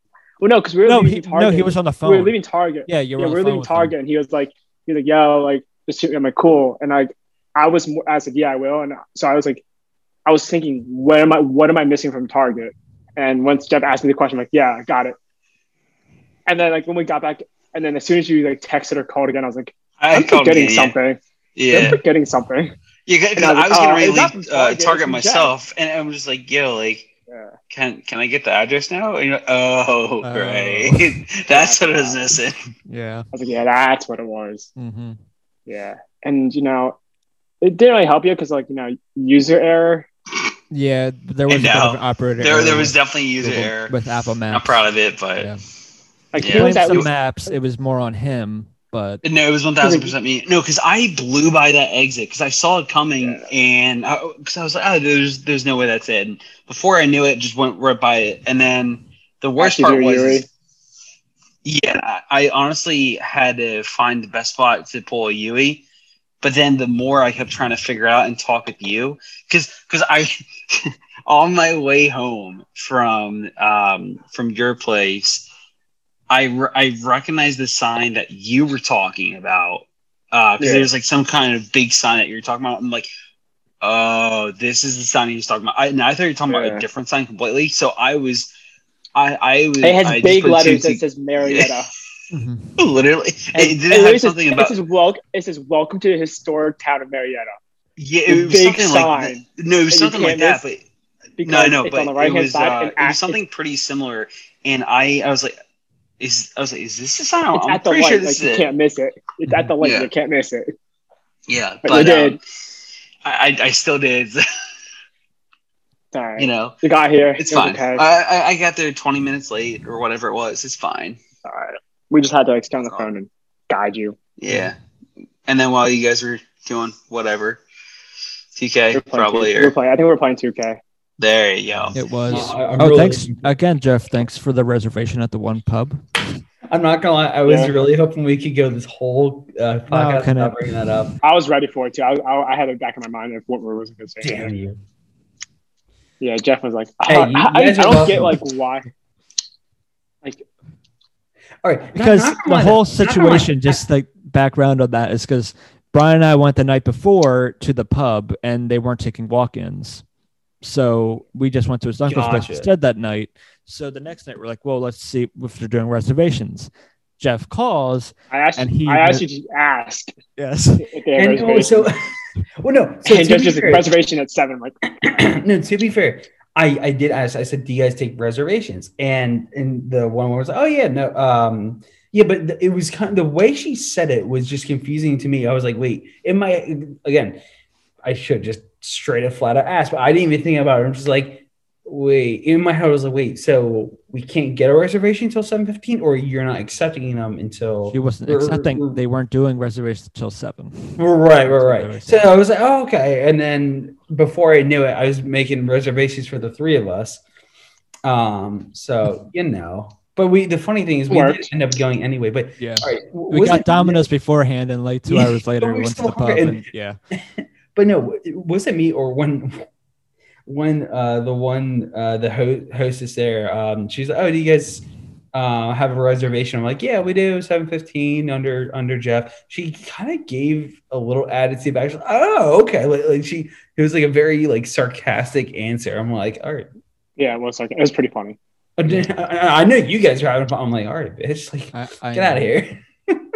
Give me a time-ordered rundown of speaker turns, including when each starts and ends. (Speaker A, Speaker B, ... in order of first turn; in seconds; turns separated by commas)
Speaker A: 0.4-9.6, Speaker B: 0.9-2.3, Speaker B: 2.9-3.9, Speaker A: 10.3-15.2, Speaker A: 16.5-21.2, Speaker C: 20.0-20.9, Speaker C: 21.6-22.0, Speaker A: 21.7-22.7, Speaker C: 23.1-27.1, Speaker A: 23.4-25.5, Speaker A: 27.3-27.6, Speaker C: 27.7-32.6, Speaker B: 30.2-31.2, Speaker A: 31.5-32.3, Speaker B: 32.9-33.2, Speaker A: 33.3-34.7, Speaker B: 34.8-35.2, Speaker A: 35.7-37.0, Speaker A: 37.6-40.1, Speaker B: 40.7-44.8, Speaker C: 41.5-44.0, Speaker C: 44.5-45.5, Speaker A: 46.3-47.1, Speaker C: 46.4-47.1, Speaker B: 46.5-49.2, Speaker C: 49.2-60.5, Speaker A: 49.8-50.1, Speaker A: 59.6-60.5, Speaker C: 61.6-65.8, Speaker C: 66.4-75.5, Speaker C: 76.3-83.1, Speaker A: 80.6-80.9, Speaker C: 83.8-88.5, Speaker A: 86.5-86.8, Speaker C: 89.2-91.8, Speaker A: 89.8-91.9, Speaker B: 92.3-92.8, Speaker C: 92.8-94.8, Speaker A: 93.5-97.5, Speaker C: 98.0-100.8, Speaker A: 98.3-100.6, Speaker A: 101.4-103.4, Speaker C: 101.4-105.5, Speaker C: 106.2-108.7, Speaker A: 107.5-110.7, Speaker C: 109.8-110.1, Speaker C: 111.5-112.4, Speaker A: 111.8-112.4, Speaker C: 113.2-114.5, Speaker A: 116.1-118.1, Speaker C: 116.4-116.8, Speaker C: 117.4-121.2, Speaker A: 121.5-124.2, Speaker C: 124.4-124.8, Speaker C: 125.5-127.6, Speaker C: 128.6-129.7, Speaker A: 128.9-130.8, Speaker C: 131.2-132.6, Speaker B: 131.9-136.0, Speaker D: 132.3-133.6, Speaker D: 136.7-141.2, Speaker A: 137.5-137.7, Speaker B: 139.9-140.6, Speaker A: 141.2-144.5, Speaker D: 144.2-144.8, Speaker A: 146.2-148.9, Speaker D: 147.1-148.4, Speaker D: 151.6-153.8, Speaker B: 151.9-160.0, Speaker B: 160.6-169.2, Speaker D: 162.1-162.7, Speaker A: 168.3-170.1, Speaker B: 170.4-170.8, Speaker A: 170.8-171.9, Speaker D: 171.2-173.9, Speaker A: 173.1-174.9, Speaker D: 175.0-187.4, Speaker D: 188.1-199.0, Speaker B: 197.9-202.2, Speaker D: 201.0-207.2, Speaker D: 208.1-214.1, Speaker A: 211.1-211.5, Speaker B: 212.6-217.0, Speaker D: 215.1-219.7, Speaker D: 220.5-236.7, Speaker A: 237.2-238.4, Speaker D: 238.8-243.2, Speaker B: 241.7-242.5